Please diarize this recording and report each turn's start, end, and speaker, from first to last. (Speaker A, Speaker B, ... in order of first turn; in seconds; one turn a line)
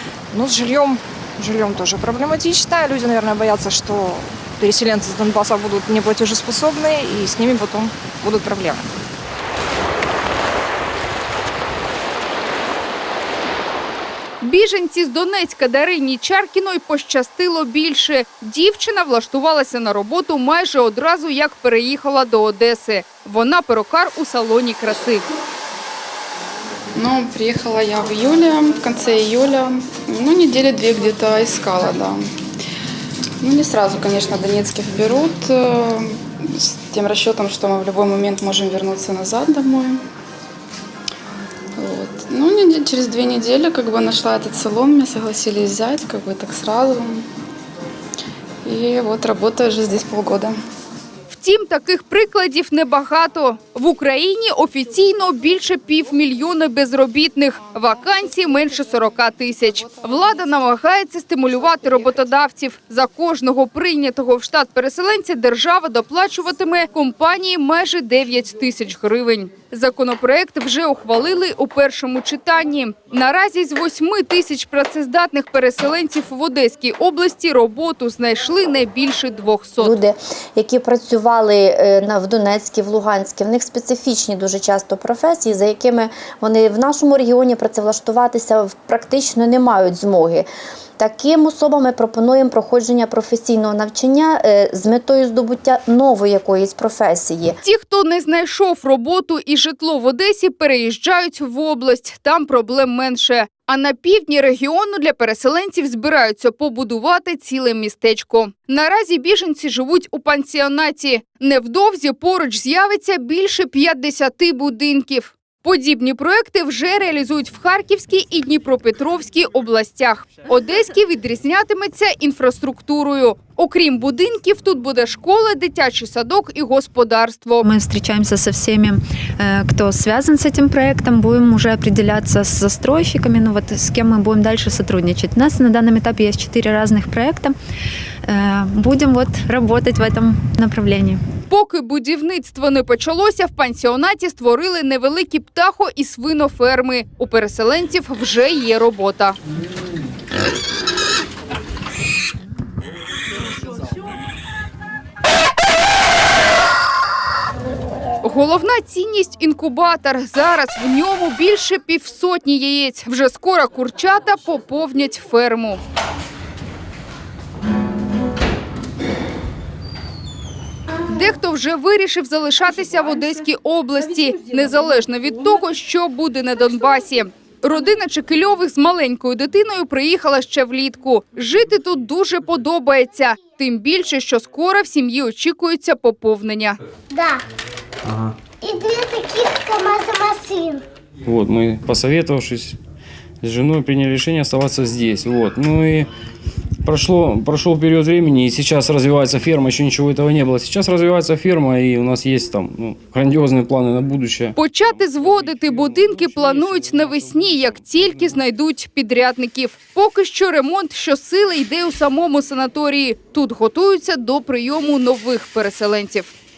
Speaker A: 0.3-8.9
Speaker B: 14.4-25.2
Speaker C: 26.9-32.3
Speaker C: 33.4-40.0
Speaker C: 41.8-47.2
Speaker C: 48.6-50.5
Speaker B: 51.3-80.0
Speaker D: 79.8-90.5
Speaker D: 91.0-97.6
Speaker B: 97.6-127.7
Speaker E: 127.6-137.6
Speaker E: 138.2-141.2
Speaker B: 141.5-149.4
Speaker B: 158.2-165.8
Speaker B: 171.1-186.8
Speaker F: 187.1-187.4
Speaker F: 188.6-190.8
Speaker G: 191.2-192.8
Speaker G: 193.4-196.1
Speaker G: 196.8-208.4
Speaker B: 204.6-216.3